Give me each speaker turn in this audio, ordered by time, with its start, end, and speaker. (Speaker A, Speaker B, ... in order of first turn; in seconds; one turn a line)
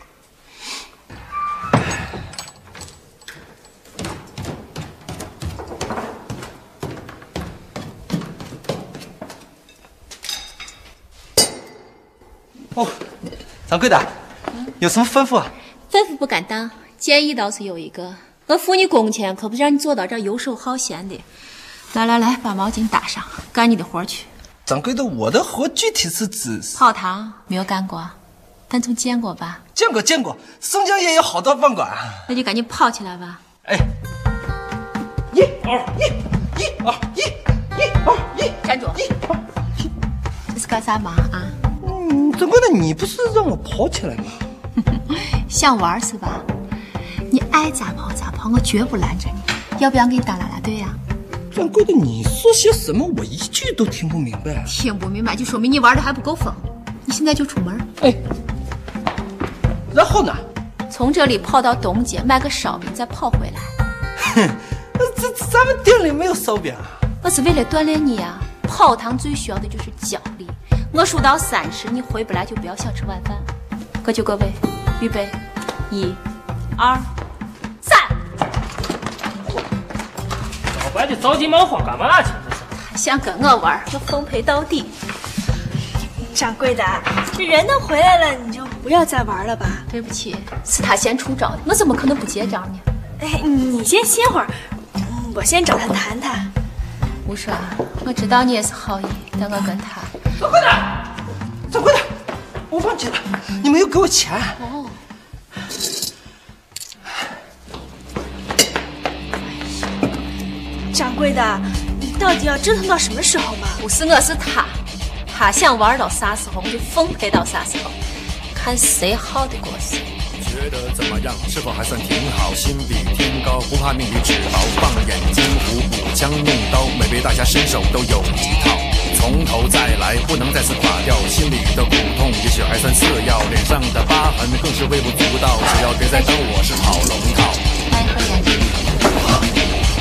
Speaker A: 13.7-14.1
Speaker A: 14.8-15.5
Speaker B: 15.9-21.2
Speaker B: 21.9-24.3
Speaker A: 24.6-26.8
Speaker B: 26.8-28.1
Speaker B: 28.7-29.6
Speaker A: 29.7-32.2
Speaker B: 32.3-33.4
Speaker A: 35.3-39.8
Speaker B: 38.6-39.0
Speaker B: 40.5-41.6
Speaker A: 41.8-44.4
Speaker B: 44.9-46.5
Speaker B: 47.3-51.0
Speaker A: 51.5-54.7
Speaker B: 54.6-57.9
Speaker A: 59.9-60.4
Speaker B: 60.9-63.7
Speaker A: 64.2-67.0
Speaker B: 67.2-73.5
Speaker B: 74.0-75.4
Speaker B: 75.9-76.2
Speaker B: 76.8-77.1
Speaker B: 77.8-78.1
Speaker C: 80.7-82.7
Speaker B: 82.8-84.9
Speaker D: 86.3-89.8
Speaker B: 89.9-92.8
Speaker D: 93.2-96.5
Speaker B: 97.2-100.1
Speaker A: 100.4-101.0
Speaker A: 101.7-102.1
Speaker A: 102.7-104.6
Speaker B: 104.6-105.0
Speaker D: 110.9-113.8
Speaker B: 113.8-118.0
Speaker B: 118.5-120.0
Speaker E: 120.4-137.6
Speaker B: 137.9-138.9